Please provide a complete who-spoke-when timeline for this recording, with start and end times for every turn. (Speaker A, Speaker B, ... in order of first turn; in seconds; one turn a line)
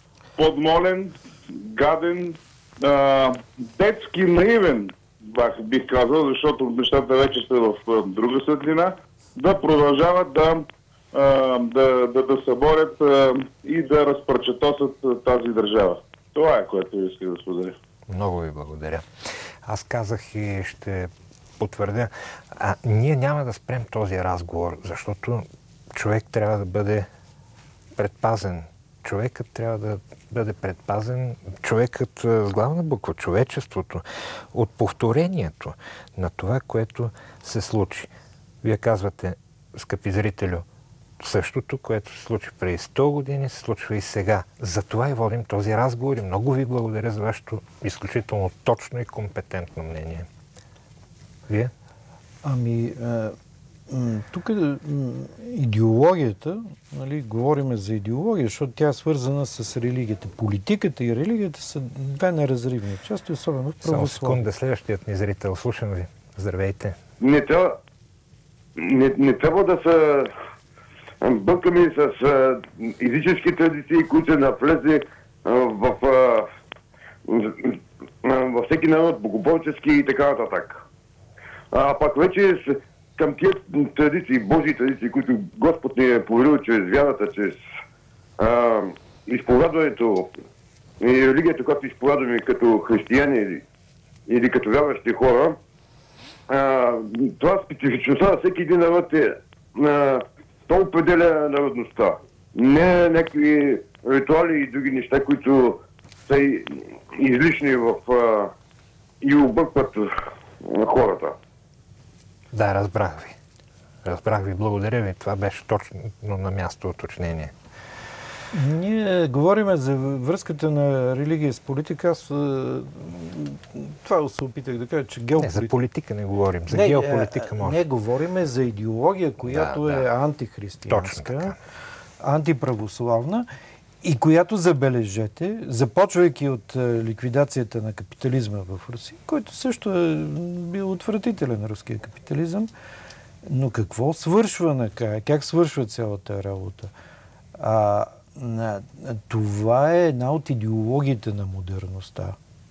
Speaker A: 0.4-17.7
Speaker B: 18.1-19.1
Speaker B: 19.6-27.1
Speaker B: 27.9-38.1
Speaker B: 38.6-40.6
Speaker B: 41.2-50.3
Speaker C: 52.4-53.3
Speaker C: 53.9-64.4
Speaker B: 63.8-67.0
Speaker D: 67.2-67.8
Speaker D: 68.8-70.3
Speaker D: 71.2-76.5
Speaker D: 77.3-80.8
Speaker D: 81.7-87.6
Speaker D: 88.4-90.3
Speaker D: 91.0-93.6
Speaker D: 94.3-95.6
Speaker D: 96.5-108.5
Speaker D: 109.2-111.3
Speaker B: 112.5-113.3
Speaker B: 114.0-117.5
Speaker C: 118.5-125.7
Speaker B: 125.4-127.8
Speaker C: 126.7-131.5
Speaker B: 129.4-130.1
Speaker B: 130.9-131.6
Speaker C: 132.2-133.5
Speaker C: 134.0-142.7
Speaker C: 143.4-146.9
Speaker C: 147.6-152.4